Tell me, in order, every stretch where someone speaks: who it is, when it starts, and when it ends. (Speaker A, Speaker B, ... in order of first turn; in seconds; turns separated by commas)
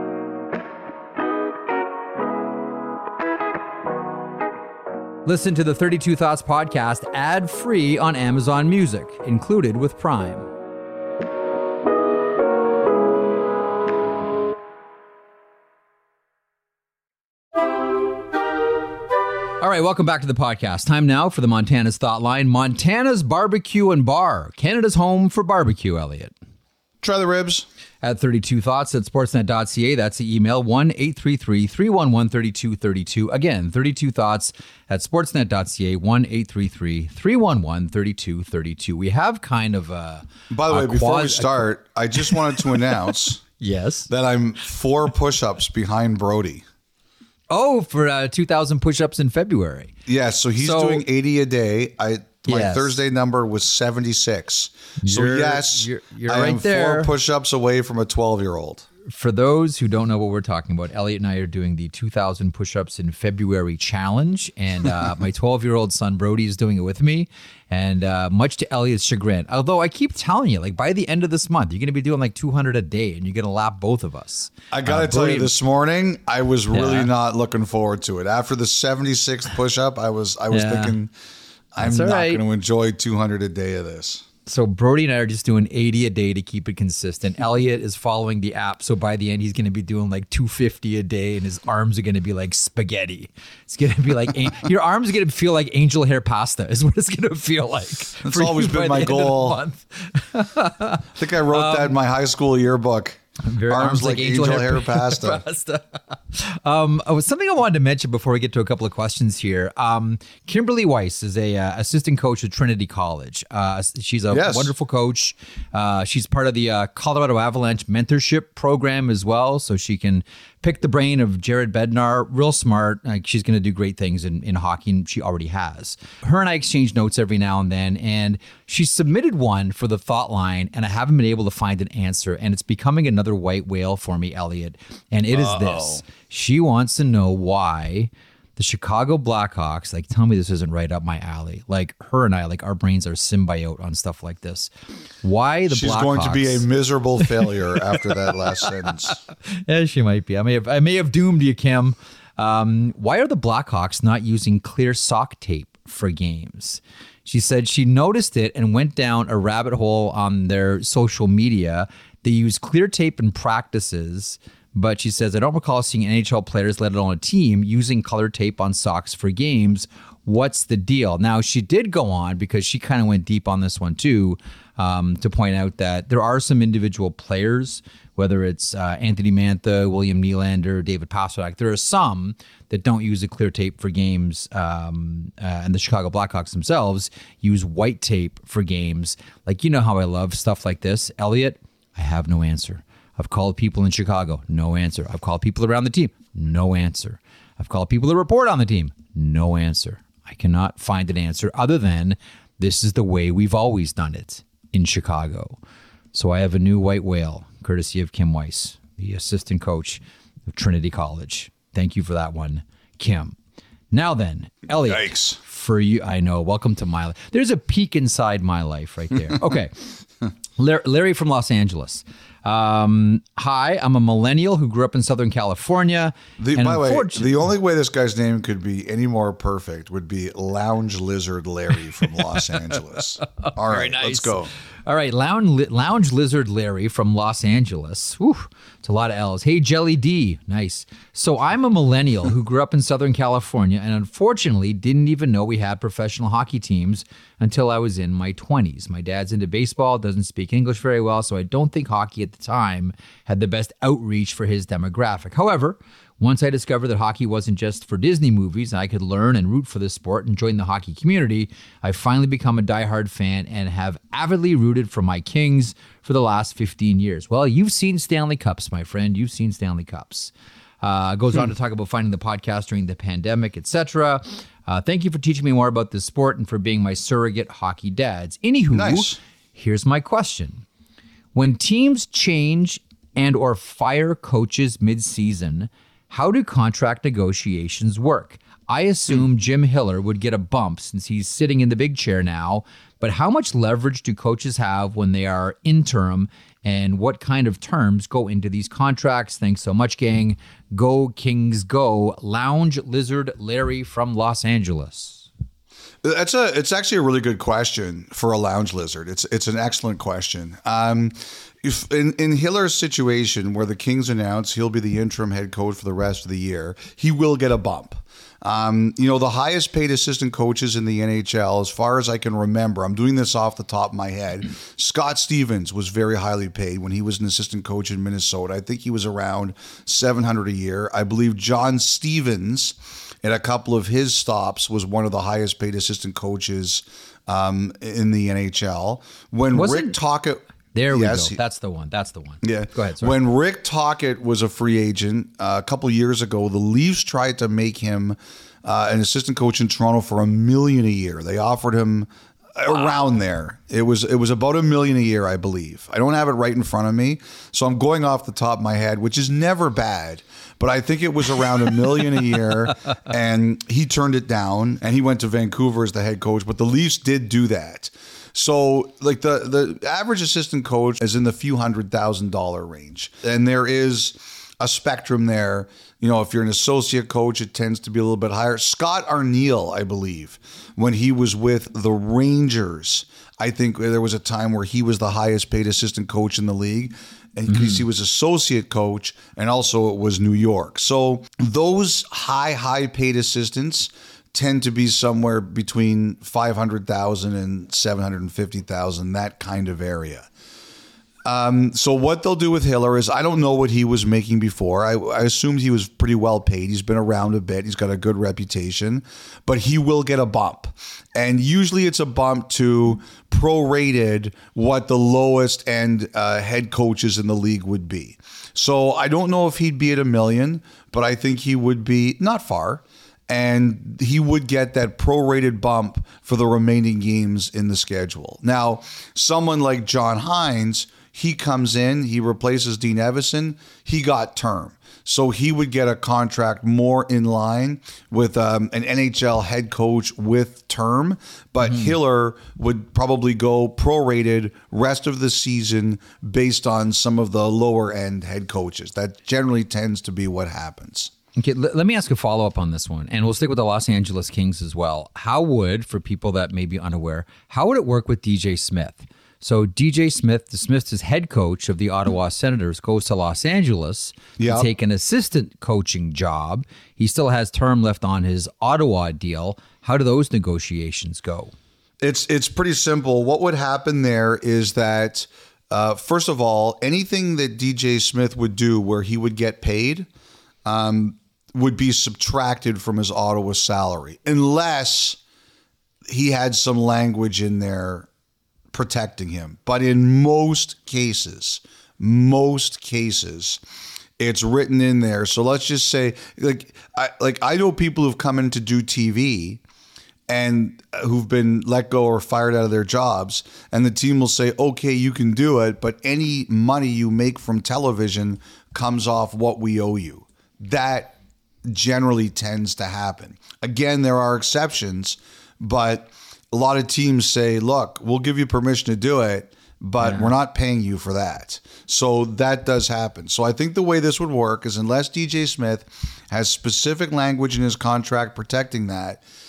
Speaker A: 5.2-10.5, Speaker A: 19.6-26.3, Speaker B: 27.0-27.7, Speaker A: 28.0-41.7, Speaker B: 40.5-43.4, Speaker A: 42.2-43.0, Speaker A: 43.6-44.1, Speaker B: 44.1-46.6, Speaker A: 47.5-50.0, Speaker B: 50.1-58.9, Speaker A: 50.6-51.0, Speaker A: 52.5-53.0, Speaker A: 55.0-57.1, Speaker A: 59.0-75.5, Speaker B: 74.7-81.1, Speaker A: 76.7-77.1, Speaker A: 80.5-81.0, Speaker B: 81.7-84.3, Speaker A: 81.8-82.4, Speaker A: 84.5-102.0, Speaker B: 98.2-99.6, Speaker B: 101.2-105.4, Speaker A: 103.4-144.7, Speaker B: 114.3-114.7, Speaker B: 135.3-136.0, Speaker A: 145.2-146.7, Speaker B: 145.7-149.2, Speaker A: 149.1-205.6, Speaker A: 206.1-213.4, Speaker A: 213.9-219.8, Speaker B: 214.8-215.4, Speaker A: 220.6-227.3, Speaker B: 226.4-234.5, Speaker A: 232.3-232.6, Speaker A: 233.4-280.6, Speaker B: 278.7-279.2, Speaker A: 281.3-305.3, Speaker B: 306.0-341.4, Speaker A: 339.5-340.0, Speaker A: 340.7-343.2, Speaker B: 342.4-400.3, Speaker A: 387.5-387.8, Speaker B: 401.2-451.1, Speaker A: 441.6-441.9, Speaker A: 451.4-471.5, Speaker B: 464.4-464.7, Speaker B: 472.0-480.1, Speaker B: 480.6-485.2, Speaker B: 486.1-488.1, Speaker B: 488.7-493.6, Speaker B: 494.2-499.6, Speaker B: 500.3-529.2, Speaker A: 520.0-520.3